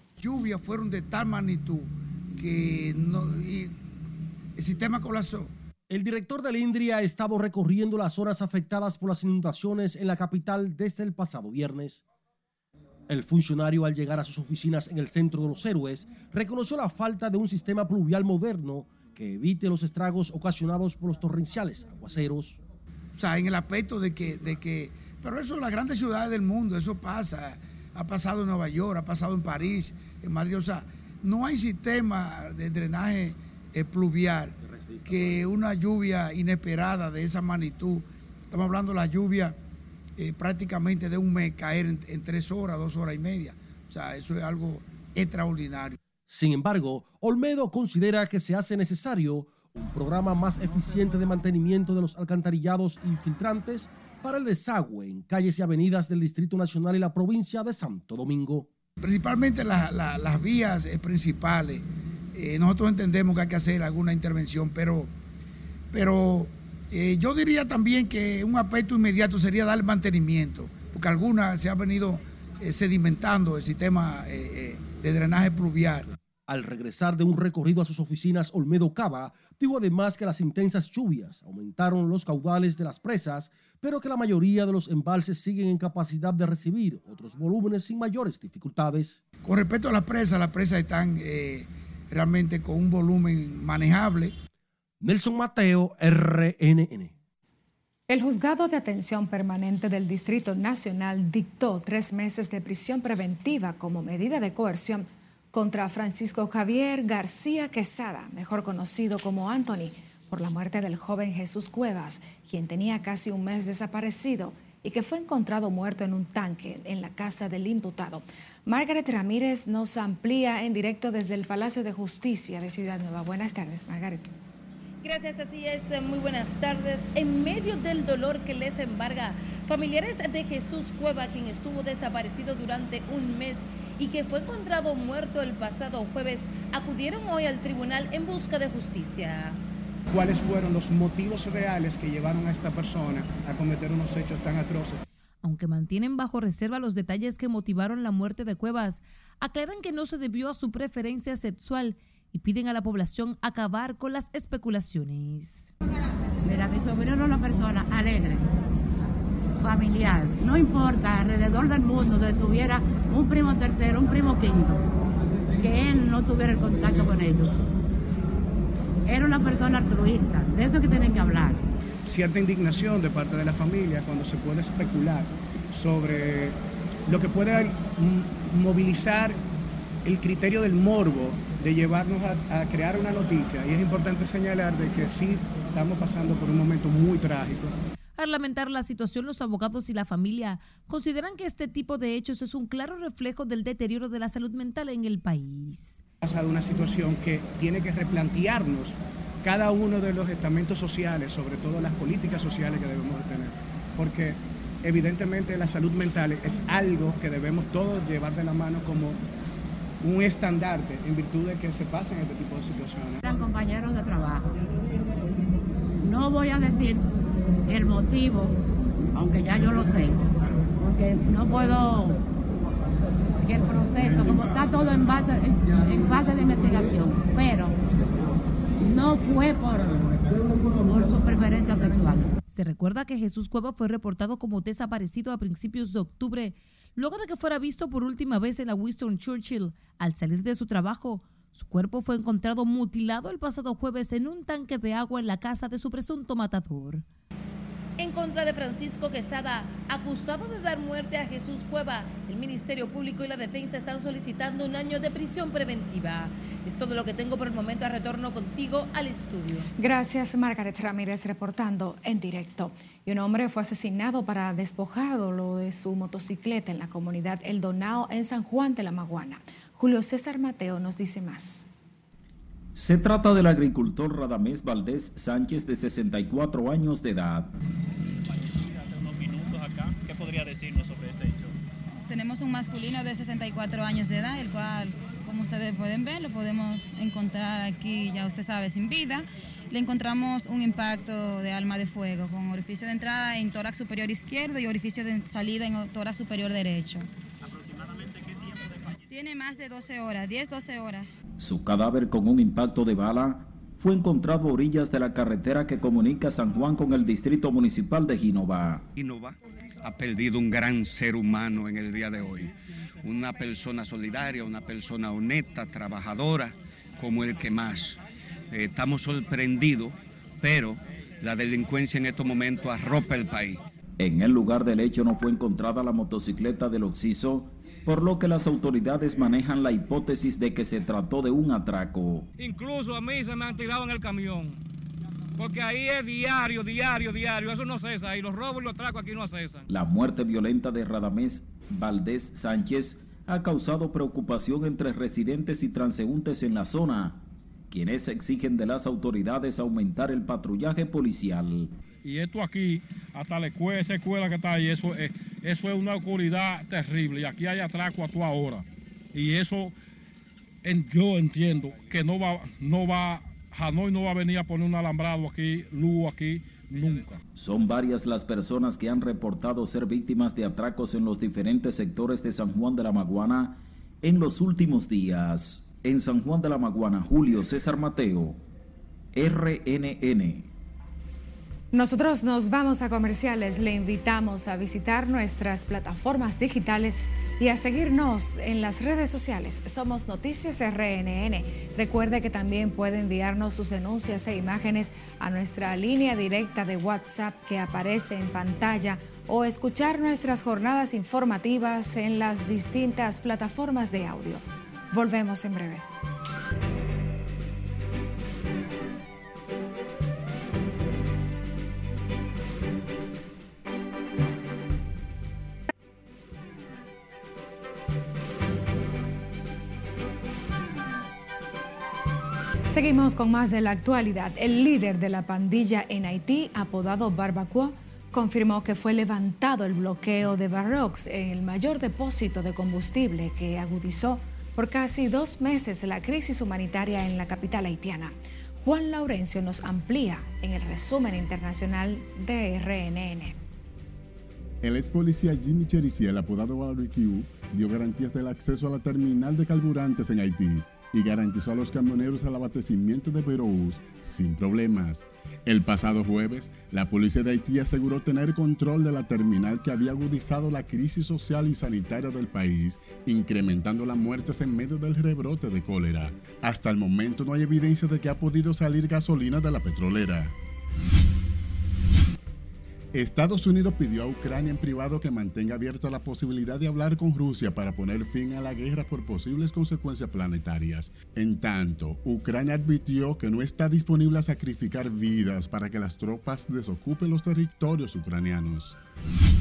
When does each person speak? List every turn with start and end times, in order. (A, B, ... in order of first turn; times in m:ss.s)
0:00.2-0:03.8 A
0:04.6-0:05.5 A
0:05.9-0:12.0 B
0:13.1-0:22.6 B
0:23.2-0:39.6 A
0:40.2-0:46.0 A
0:46.3-0:58.7 B
0:59.0-1:05.1 A
1:05.9-1:16.1 A
1:16.5-1:29.2 B
1:29.4-1:34.3 A
1:35.0-1:37.1 B
1:38.1-2:04.3 C
2:05.0-2:19.6 D
2:20.1-2:25.0 E
2:25.4-2:35.7 D
2:36.4-2:38.5 F
2:39.6-2:44.8 F
2:45.6-2:47.6 F
2:49.0-2:51.6 F
2:52.0-2:59.4 E
3:00.0-3:07.8 E
3:08.2-3:16.0 D
3:16.2-3:29.2 E
3:30.0-3:33.2 E
3:33.2-3:34.6 F
3:36.0-3:37.1 F
3:37.6-3:38.6 F
3:39.1-3:42.2 F
3:43.4-3:47.8 F
3:48.8-3:50.2 F
3:50.8-3:52.4 F
3:52.5-4:07.0 D
4:08.0-4:19.7 D
4:19.8-4:31.7 C
4:32.8-4:37.5 G
4:38.3-4:41.6 H
4:42.0-4:57.1 I
4:57.4-4:59.2 H
4:59.1-5:01.1 I
5:01.4-5:08.9 G
5:09.0-5:18.0 J
5:18.5-5:23.6 J
5:24.0-5:32.3 G
5:39.7-5:51.7 G
5:52.0-5:59.7 K
6:00.6-6:07.2 K
6:07.3-6:18.4 G
6:19.1-6:20.5 G
6:21.7-6:45.8 C
7:02.7-7:23.4 C
7:24.6-7:50.3 L
7:52.9-8:08.8 L